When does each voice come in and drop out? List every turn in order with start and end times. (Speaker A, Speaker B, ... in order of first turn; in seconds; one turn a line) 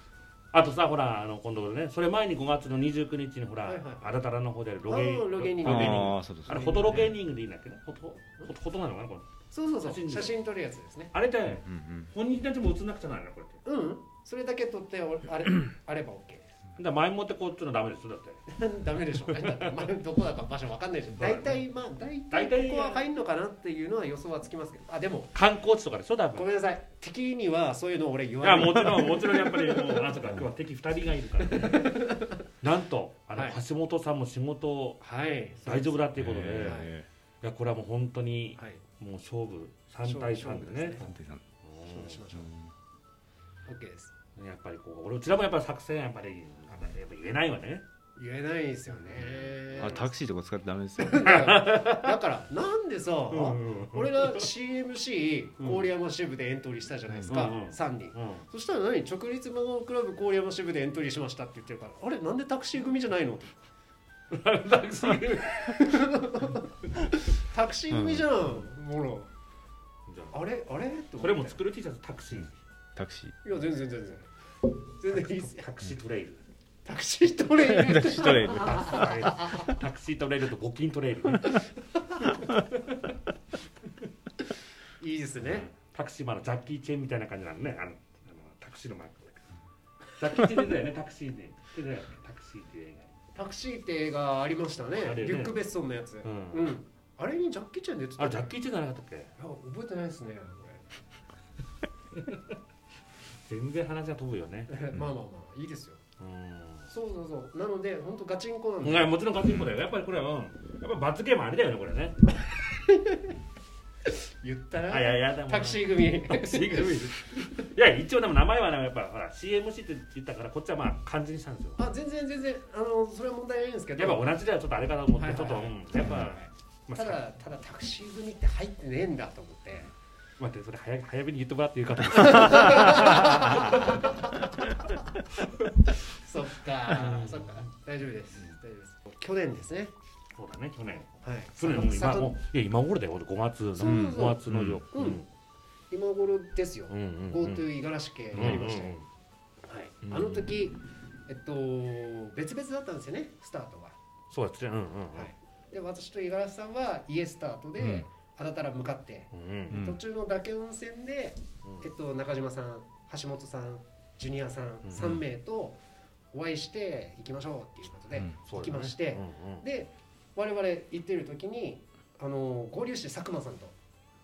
Speaker A: 0.5-9.3
Speaker B: 3.6-4.2
Speaker B: 4.8-7.1
Speaker C: 5.6-7.0
Speaker B: 9.5-11.2
Speaker A: 9.8-10.4
Speaker A: 11.1-13.6
Speaker C: 11.5-12.1
Speaker B: 13.7-16.5
Speaker A: 16.8-18.4
Speaker B: 18.5-25.3
Speaker A: 19.4-19.9
Speaker A: 21.2-21.6
Speaker A: 22.3-23.1
Speaker A: 25.3-26.5
Speaker B: 26.3-30.2
Speaker A: 28.4-32.0
Speaker B: 31.4-32.4
Speaker A: 32.6-35.0
Speaker B: 33.3-33.6
Speaker B: 35.0-36.9
Speaker A: 35.6-36.9
Speaker C: 36.2-37.1
Speaker A: 37.4-41.1
Speaker B: 40.0-41.1
Speaker C: 41.0-41.4
Speaker A: 41.6-42.2
Speaker B: 41.8-42.5
Speaker C: 42.3-42.7
Speaker B: 43.7-44.1
Speaker A: 44.4-47.9
Speaker B: 48.2-50.1
Speaker A: 49.1-50.1
Speaker C: 49.7-51.4
Speaker B: 51.0-63.5
Speaker A: 51.2-52.2
Speaker A: 53.3-54.5
Speaker A: 55.6-55.9
Speaker A: 57.3-58.5
Speaker A: 64.3-65.9
Speaker B: 65.6-69.3
Speaker C: 67.9-68.4
Speaker A: 70.1-70.4
Speaker B: 70.3-71.6
Speaker A: 71.2-72.5
Speaker C: 73.0-73.4
Speaker B: 73.4-74.3
Speaker B: 75.0-75.7
Speaker A: 75.1-76.4
Speaker B: 76.8-79.8
Speaker C: 77.6-79.3
Speaker A: 78.7-81.6
Speaker B: 81.5-82.6
Speaker B: 85.0-85.7
Speaker A: 85.4-89.4
Speaker A: 90.2-93.1
Speaker B: 93.3-98.5
Speaker A: 95.0-95.6
Speaker A: 96.2-96.7
Speaker A: 98.2-99.3
Speaker B: 99.4-100.8
Speaker A: 102.2-102.4
Speaker A: 103.5-104.7
Speaker B: 104.7-106.0
Speaker A: 106.2-106.9
Speaker B: 106.9-109.3
Speaker A: 108.8-112.2
Speaker B: 112.5-113.3
Speaker B: 114.3-117.5
Speaker A: 114.9-121.8
Speaker B: 121.8-124.4
Speaker A: 124.0-127.2
Speaker B: 125.1-129.9
Speaker A: 130.4-134.1
Speaker B: 132.3-134.9
Speaker B: 136.1-139.9
Speaker A: 136.9-137.7
Speaker A: 140.3-145.3
Speaker B: 141.2-142.4
Speaker B: 143.8-145.3
Speaker C: 143.8-144.8
Speaker B: 145.9-149.0
Speaker A: 146.9-147.7
Speaker A: 148.3-149.1
Speaker B: 149.7-154.0
Speaker A: 150.0-150.6
Speaker A: 154.3-155.3
Speaker B: 155.1-165.8
Speaker C: 157.8-158.1
Speaker A: 159.3-159.8
Speaker C: 159.7-160.0
Speaker A: 161.6-161.9
Speaker A: 164.9-165.2
Speaker B: 166.3-173.8
Speaker A: 168.4-169.7